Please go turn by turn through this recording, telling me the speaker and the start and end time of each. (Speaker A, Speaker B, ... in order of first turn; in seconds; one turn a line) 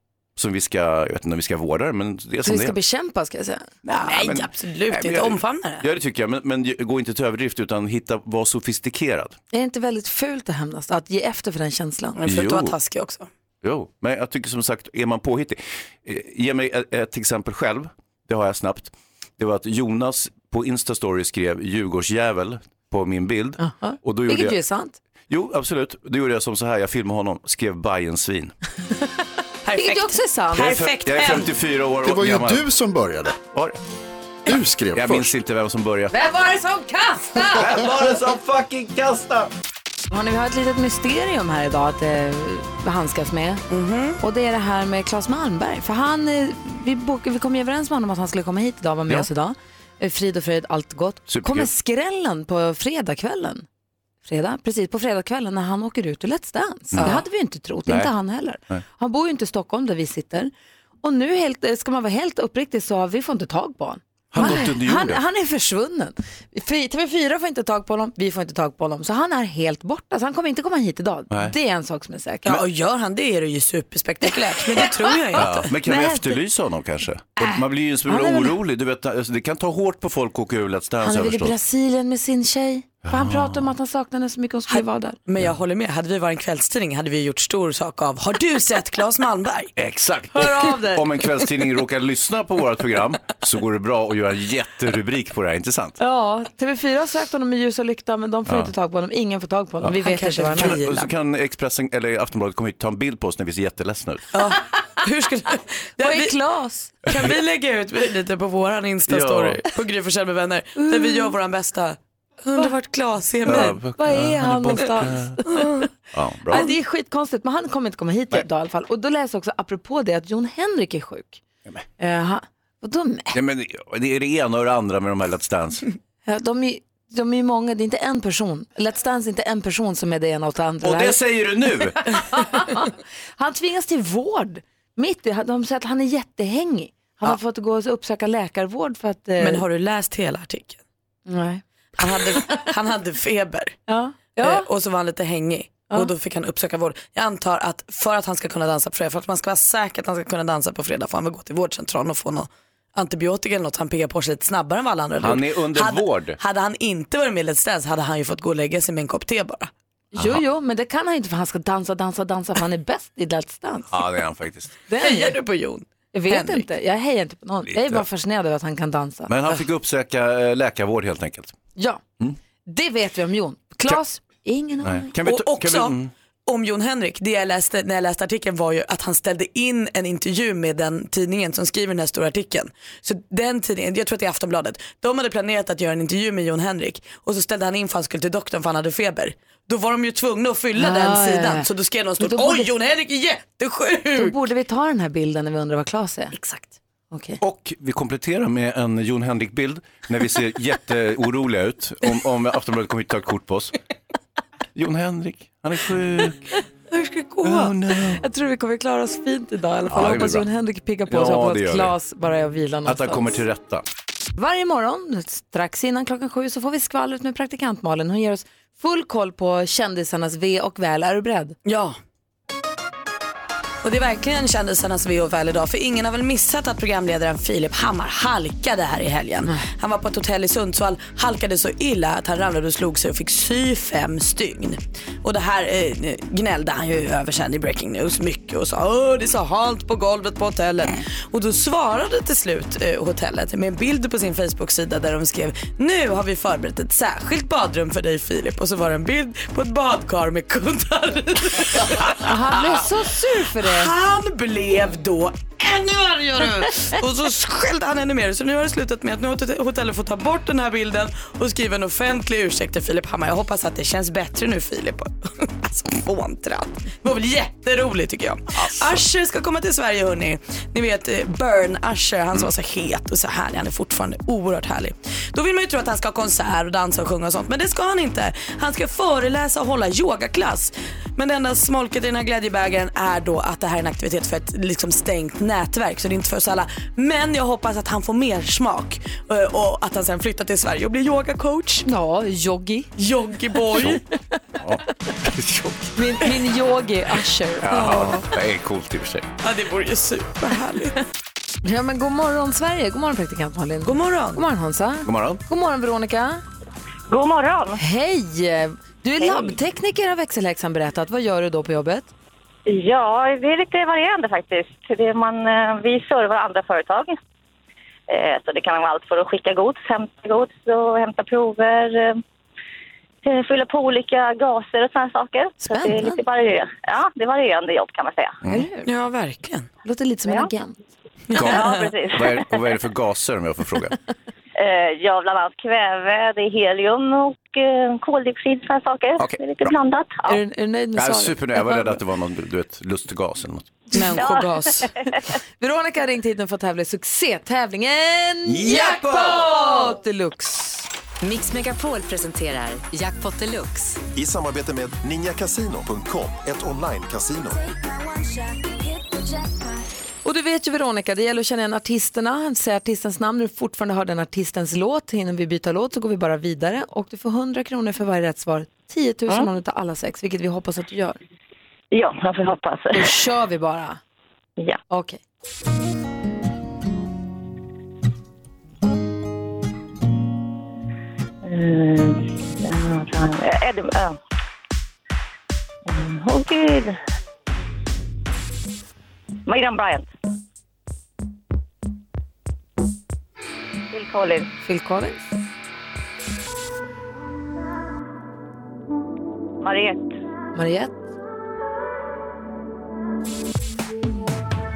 Speaker A: 0.3-2.8
Speaker B: 2.4-3.7
Speaker A: 3.8-9.4
Speaker C: 3.9-5.8
Speaker B: 9.5-12.2
Speaker C: 12.2-13.3
Speaker A: 12.2-12.7
Speaker A: 13.6-24.6
Speaker B: 23.6-25.0
Speaker A: 25.3-28.5
Speaker C: 29.6-31.5
Speaker B: 29.8-30.8
Speaker A: 30.5-32.7
Speaker D: 32.0-33.4
Speaker A: 33.5-33.8
Speaker D: 34.5-35.3
Speaker A: 34.9-36.1
Speaker B: 36.1-37.9
Speaker A: 37.4-39.5
Speaker B: 40.1-43.6
Speaker C: 43.7-44.2
Speaker B: 44.2-53.6
Speaker A: 51.3-51.7
Speaker B: 54.2-60.5
Speaker A: 56.9-57.2
Speaker A: 57.9-58.1
Speaker B: 61.0-72.5
Speaker A: 64.3-65.2
Speaker C: 72.5-75.7
Speaker B: 74.2-76.2
Speaker A: 75.3-81.5
Speaker B: 78.1-78.5
Speaker B: 81.0-85.2
Speaker A: 83.0-83.7
Speaker C: 84.7-89.7
Speaker A: 89.8-96.0
Speaker B: 90.3-91.0
Speaker B: 96.0-101.0
Speaker C: 100.0-101.0
Speaker A: 100.5-104.3
Speaker C: 104.3-106.3
Speaker B: 106.0-107.0
Speaker C: 107.1-113.8
Speaker A: 109.1-109.6
Speaker B: 110.8-111.3
Speaker B: 113.4-115.9
Speaker A: 113.5-115.4
Speaker C: 115.5-115.8
Speaker A: 116.1-116.7
Speaker B: 116.5-121.4
Speaker B: 122.0-123.4
Speaker A: 123.3-125.8
Speaker B: 126.2-131.2
Speaker A: 130.8-132.1
Speaker B: 132.1-139.6
Speaker C: 139.4-140.8
Speaker B: 141.3-142.7
Speaker C: 142.0-143.8
Speaker B: 143.9-144.7
Speaker C: 144.4-159.7
Speaker A: 155.2-156.4
Speaker B: 160.1-163.9
Speaker A: 163.9-164.8
Speaker B: 164.9-165.3
Speaker C: 165.0-166.7
Speaker B: 166.1-169.3
Speaker A: 167.6-168.0
Speaker A: 169.3-171.6
Speaker B: 171.8-172.0
Speaker B: 172.7-175.1
Speaker A: 174.8-176.1
Speaker C: 175.2-194.3
Speaker B: 190.8-191.7
Speaker B: 192.2-192.7
Speaker B: 194.2-196.5
Speaker B: 197.1-197.4
Speaker A: 197.4-203.7
Speaker A: 204.7-206.5
Speaker C: 206.9-207.7
Speaker A: 207.4-208.2
Speaker B: 208.2-213.4
Speaker A: 209.9-210.5
Speaker A: 211.1-211.9
Speaker A: 212.8-213.8
Speaker B: 214.3-221.6
Speaker C: 221.7-222.0
Speaker C: 223.8-252.9
Speaker B: 252.2-253.9
Speaker C: 253.6-291.8
Speaker A: 268.6-269.0
Speaker B: 291.8-292.9
Speaker C: 293.0-294.0
Speaker B: 293.7-294.0
Speaker A: 293.7-294.0
Speaker A: 294.6-295.9
Speaker B: 295.9-298.1
Speaker A: 297.6-299.3
Speaker C: 297.7-298.2
Speaker C: 299.4-301.0
Speaker B: 301.6-306.4
Speaker C: 303.9-304.4
Speaker A: 305.0-305.4
Speaker E: 307.1-307.8
Speaker B: 307.8-312.1
Speaker E: 309.2-309.5
Speaker E: 312.6-317.2
Speaker E: 318.1-322.2
Speaker E: 323.2-328.4
Speaker B: 325.6-326.2
Speaker B: 328.5-328.9
Speaker C: 328.9-329.7
Speaker B: 329.8-330.8
Speaker C: 331.3-331.8
Speaker A: 331.3-333.9
Speaker E: 331.4-332.6
Speaker E: 334.6-340.4
Speaker A: 339.2-339.7
Speaker B: 340.3-342.0
Speaker A: 340.9-343.9
Speaker B: 343.9-350.9
Speaker C: 344.0-344.7
Speaker E: 344.1-344.9
Speaker A: 348.6-348.9
Speaker F: 351.2-354.0
Speaker G: 354.1-357.6
Speaker B: 360.2-371.2
Speaker E: 371.9-373.1
Speaker B: 372.9-374.0
Speaker B: 374.9-375.2
Speaker E: 381.4-384.2
Speaker E: 385.9-387.0
Speaker E: 389.4-390.1
Speaker E: 393.9-394.5
Speaker B: 394.6-395.2
Speaker E: 399.6-400.1
Speaker B: 400.5-400.9